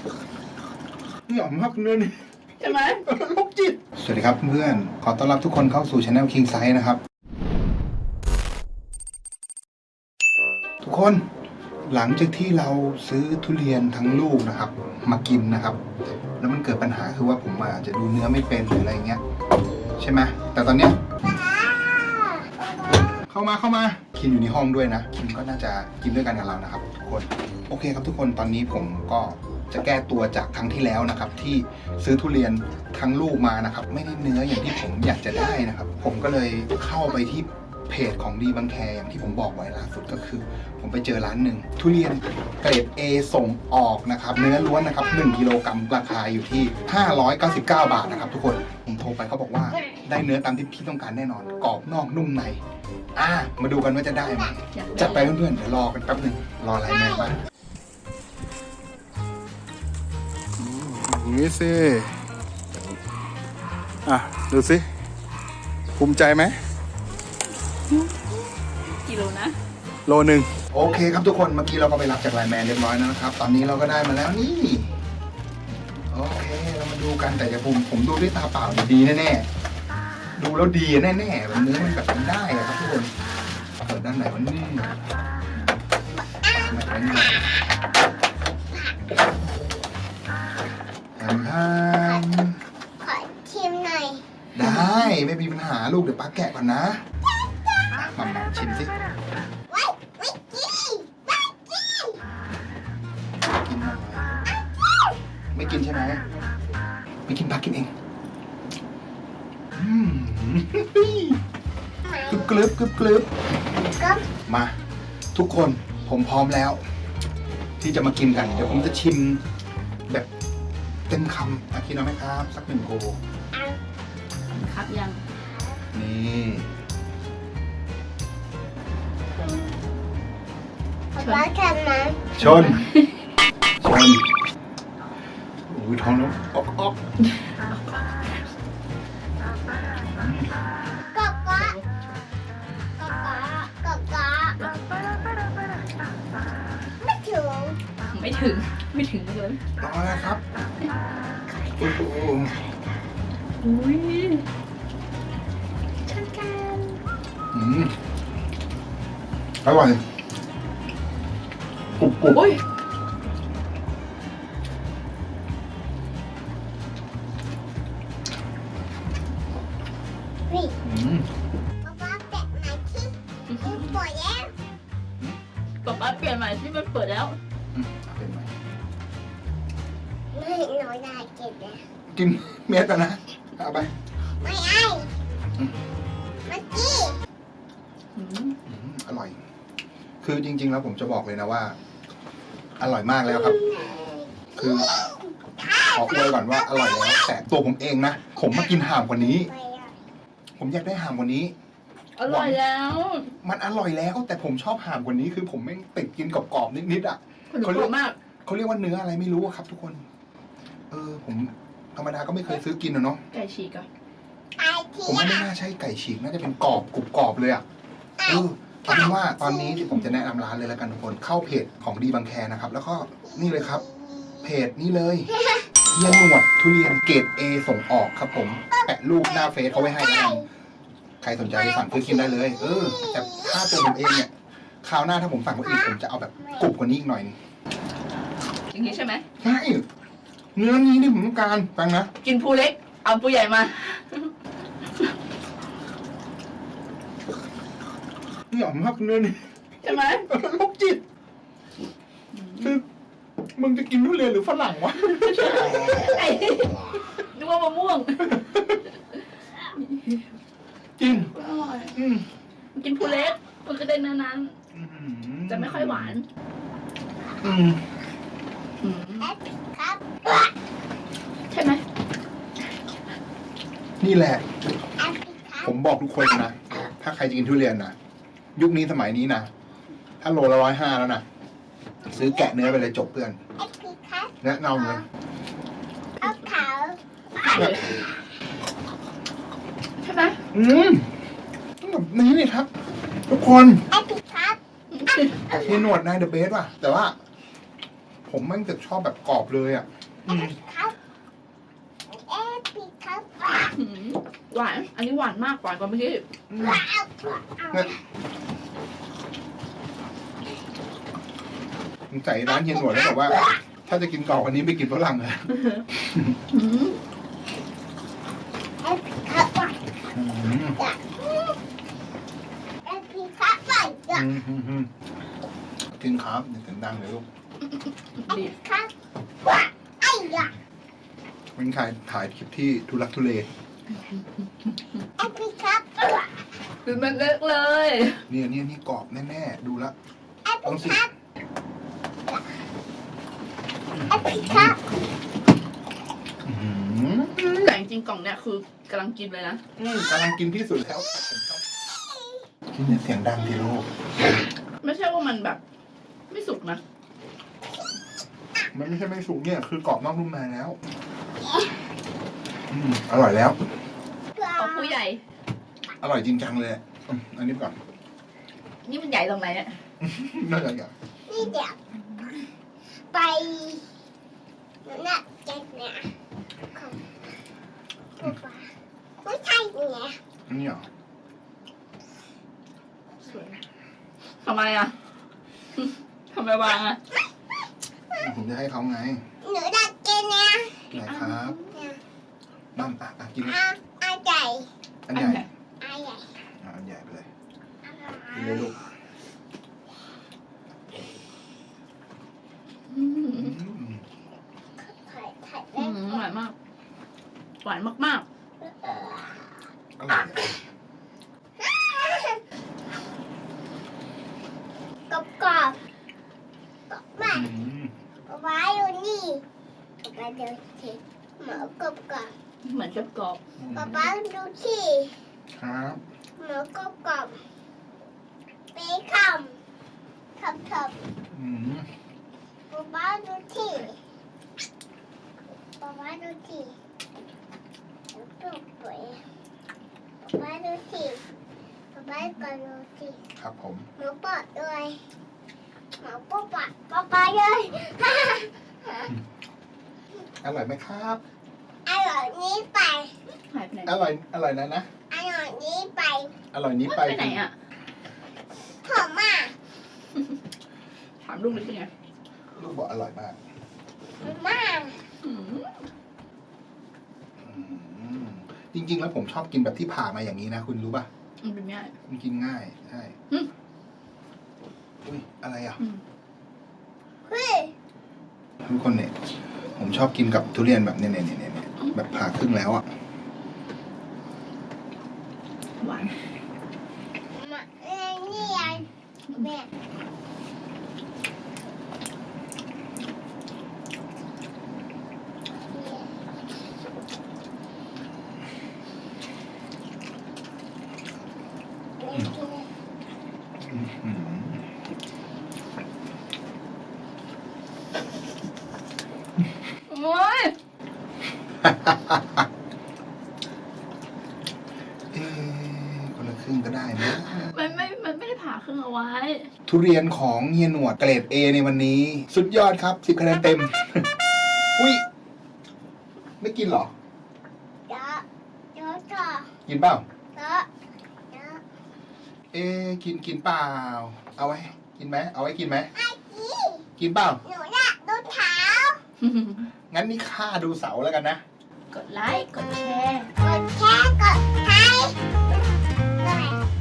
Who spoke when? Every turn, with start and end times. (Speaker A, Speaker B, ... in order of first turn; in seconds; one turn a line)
Speaker A: 1.3-7.0
Speaker B: 2.6-3.0
Speaker A: 10.8-11.2
Speaker A: 11.9-15.8
Speaker A: 16.4-19.2
Speaker A: 20.0-21.0
Speaker C: 21.2-22.7
Speaker A: 23.3-52.6
Speaker A: 53.1-57.4
Speaker B: 54.7-55.4
Speaker A: 60.6-62.2
Speaker A: 64.0-64.9
Speaker A: 66.0-66.6
Speaker B: 68.9-69.5
Speaker A: 70.1-74.9
Speaker A: 76.1-79.5
Speaker A: 80.4-83.1
Speaker A: 83.8-84.9
Speaker C: 86.4-86.7
Speaker A: 86.6-87.4
Speaker C: 88.7-89.0
Speaker A: 91.2-92.6
Speaker C: 93.0-94.2
Speaker A: 94.5-97.0
Speaker A: 98.0-98.9
Speaker C: 99.7-102.2
Speaker A: 103.5-104.4
Speaker A: 105.5-106.2
Speaker A: 107.3-107.9
Speaker A: 109.8-111.4
Speaker C: 112.0-112.5
Speaker A: 112.2-113.3
Speaker C: 114.0-114.3
Speaker A: 114.5-114.7
Speaker A: 115.3-116.8
Speaker A: 117.8-119.4
Speaker A: 121.1-123.2
Speaker C: 123.5-123.8
Speaker B: 124.5-125.2
Speaker C: 125.4-125.8
Speaker A: 125.9-126.7
Speaker C: 129.4-129.8
Speaker C: 131.1-132.3
Speaker B: 131.2-131.5
Speaker A: 132.4-132.8
Speaker B: 132.4-133.1
Speaker A: 133.8-134.2
Speaker A: 135.7-137.0
Speaker B: 137.4-138.3
Speaker A: 140.1-140.5
Speaker C: 141.1-141.8
Speaker B: 141.6-141.9
Speaker C: 143.0-144.7
Speaker B: 144.6-145.0
Speaker C: 147.0-147.8
Speaker B: 148.1-149.6
Speaker A: 149.8-150.4
Speaker B: 151.5-152.7
Speaker A: 151.8-152.6
Speaker B: 153.6-154.4
Speaker B: 156.1-157.0
Speaker A: 157.5-157.9
Speaker A: 159.6-160.0
Speaker A: 162.0-162.4
Speaker B: 162.3-162.6
Speaker C: 170.5-170.8
Speaker A: 170.8-171.3
Speaker C: 171.8-174.5
Speaker B: 173.5-173.9
Speaker B: 175.8-177.4
Speaker A: 177.7-178.5
Speaker C: 180.3-181.8
Speaker A: 182.1-183.9
Speaker C: 184.4-185.1
Speaker C: 186.4-187.2
Speaker B: 188.2-188.6
Speaker A: 188.7-189.4
Speaker A: 190.2-191.8
Speaker A: 192.8-193.6
Speaker C: 193.3-197.2
Speaker A: 194.6-195.0
Speaker A: 195.9-199.5
Speaker C: 198.6-199.9
Speaker A: 200.6-201.5
Speaker B: 202.2-203.3
Speaker A: 202.2-202.6
Speaker A: 203.4-210.0
Speaker B: 207.5-208.2
Speaker A: 210.9-213.2
Speaker B: 213.3-213.9
Speaker C: 214.6-215.5
Speaker A: 215.1-217.6
Speaker C: 218.2-220.0
Speaker A: 218.3-223.8
Speaker C: 223.2-224.5
Speaker A: 224.4-225.3
Speaker C: 225.3-225.8
Speaker A: 225.9-230.5
Speaker C: 228.7-230.5
Speaker A: 231.2-234.3
Speaker C: 231.6-234.1
Speaker A: 234.8-237.4
Speaker C: 235.7-236.7
Speaker B: 238.7-239.2
Speaker A: 239.4-239.9
Speaker A: 240.6-242.1
Speaker B: 242.2-244.3
Speaker A: 248.5-251.0
Speaker B: 249.8-250.3
Speaker B: 252.3-252.7
Speaker A: 253.6-256.1
Speaker B: 255.2-258.7
Speaker A: 258.3-258.6
Speaker B: 259.6-260.3
Speaker A: 261.0-261.3
Speaker B: 261.0-262.0
Speaker A: 261.9-262.3
Speaker B: 262.7-264.6
Speaker A: 264.7-266.2
Speaker B: 265.5-266.2
Speaker A: 267.4-267.8
Speaker B: 268.8-269.3
Speaker C: 269.2-270.5
Speaker B: 271.5-271.8
Speaker A: 274.0-274.4
Speaker C: 275.0-275.7
Speaker A: 275.6-277.9
Speaker A: 278.6-279.5
Speaker A: 280.2-281.2
Speaker C: 282.1-282.6
Speaker A: 282.1-283.4
Speaker C: 283.6-285.0
Speaker A: 284.4-285.1
Speaker C: 286.2-287.0
Speaker B: 287.4-288.0
Speaker A: 287.5-287.8
Speaker C: 287.7-287.9
Speaker B: 290.0-290.4
Speaker A: 290.5-291.1
Speaker A: 291.8-292.7
Speaker A: 293.3-293.9
Speaker C: 293.9-295.7
Speaker B: 294.9-295.4
Speaker A: 295.5-297.2
Speaker A: 298.3-300.6
Speaker C: 300.2-301.0
Speaker C: 302.1-303.7
Speaker B: 303.6-306.2
Speaker A: 306.5-306.8
Speaker C: 306.6-308.0
Speaker A: 312.1-316.4
Speaker C: 312.6-313.6
Speaker B: 316.5-317.0
Speaker C: 318.8-319.8
Speaker A: 320.1-320.8
Speaker C: 320.8-321.5
Speaker C: 322.9-324.3
Speaker A: 324.1-324.9
Speaker A: 325.9-327.3
Speaker B: 328.2-328.5
Speaker C: 328.3-328.9
Speaker C: 329.4-330.6
Speaker A: 331.6-333.5
Speaker C: 335.2-336.3
Speaker B: 336.9-338.2
Speaker A: 338.3-339.9
Speaker C: 340.4-341.1
Speaker A: 340.6-341.0
Speaker A: 344.0-344.8
Speaker C: 344.1-344.8
Speaker A: 346.4-347.7
Speaker B: 347.5-349.6
Speaker A: 349.8-351.6
Speaker C: 352.1-352.4
Speaker A: 352.7-353.9
Speaker B: 354.8-355.6
Speaker B: 356.3-356.8
Speaker A: 358.7-360.8
Speaker C: 361.5-361.7
Speaker A: 362.7-363.6
Speaker C: 364.4-365.0
Speaker B: 364.6-365.2
Speaker A: 366.0-367.8
Speaker B: 368.8-369.8
Speaker A: 370.0-370.9
Speaker C: 371.3-371.8
Speaker C: 373.1-373.9
Speaker C: 374.9-376.1
Speaker C: 376.7-377.1
Speaker C: 378.2-378.7
Speaker C: 379.2-380.2
Speaker A: 380.5-380.9
Speaker B: 383.2-383.6
Speaker B: 384.4-384.9
Speaker B: 385.8-387.0
Speaker A: 388.1-389.2
Speaker C: 389.4-390.9
Speaker A: 390.9-391.6
Speaker B: 391.0-391.8
Speaker C: 391.7-392.0
Speaker A: 392.8-393.6
Speaker C: 393.4-394.7
Speaker A: 395.1-395.4
Speaker B: 395.1-395.5
Speaker C: 395.8-396.3
Speaker A: 396.6-397.3
Speaker C: 397.9-398.7
Speaker A: 398.3-398.8
Speaker B: 402.9-403.6
Speaker A: 403.4-404.0
Speaker C: 404.8-406.3
Speaker B: 405.8-406.6
Speaker B: 407.6-408.3
Speaker C: 408.6-409.5
Speaker A: 410.0-410.6
Speaker C: 411.6-412.4
Speaker C: 415.1-415.8
Speaker C: 416.9-417.5
Speaker A: 417.3-417.9
Speaker C: 418.3-419.4
Speaker C: 420.0-422.3
Speaker B: 422.6-423.8
Speaker A: 423.6-424.0
Speaker C: 423.7-425.1
Speaker A: 425.6-426.0
Speaker C: 426.4-427.4
Speaker C: 428.7-429.6
Speaker C: 430.4-431.0
Speaker A: 431.3-431.9
Speaker C: 432.7-434.0
Speaker C: 435.8-436.8
Speaker C: 438.1-439.2
Speaker C: 440.2-441.2
Speaker C: 441.9-443.2
Speaker A: 443.4-443.9
Speaker C: 444.0-445.0
Speaker C: 446.0-449.1
Speaker A: 450.4-451.2
Speaker C: 451.9-453.1
Speaker B: 453.5-454.0
Speaker A: 453.9-454.9
Speaker C: 455.1-456.4
Speaker A: 456.5-457.4
Speaker B: 456.9-457.5
Speaker C: 458.8-459.5
Speaker B: 461.2-461.9
Speaker A: 462.6-463.4
Speaker C: 464.2-465.0
Speaker B: 465.2-465.8
Speaker A: 467.4-471.1
Speaker B: 471.4-471.9
Speaker A: 472.1-473.2
Speaker A: 475.0-475.8
Speaker C: 477.3-477.7
Speaker A: 478.6-479.1
Speaker A: 479.8-482.9
Speaker B: 485.8-486.1
Speaker C: 487.4-489.7
Speaker A: 488.3-488.9
Speaker C: 495.7-496.1
Speaker C: 502.0-502.7
Speaker A: 503.7-504.6
Speaker B: 509.9-510.6
Speaker A: 511.6-512.4
Speaker A: 515.1-517.8
Speaker B: 517.5-519.5
Speaker A: 519.7-524.1
Speaker A: 524.8-525.0
Speaker A: 526.4-526.9
Speaker C: 527.9-528.2
Speaker C: 528.8-529.5
Speaker A: 529.7-530.0
Speaker C: 530.4-530.7
Speaker C: 531.3-531.6
Speaker A: 532.5-535.9
Speaker C: 536.0-536.9
Speaker A: 537.0-537.4
Speaker C: 537.4-539.0
Speaker B: 539.2-539.6
Speaker A: 539.9-541.4
Speaker B: 541.9-543.3
Speaker C: 543.4-545.2
Speaker C: 546.2-546.6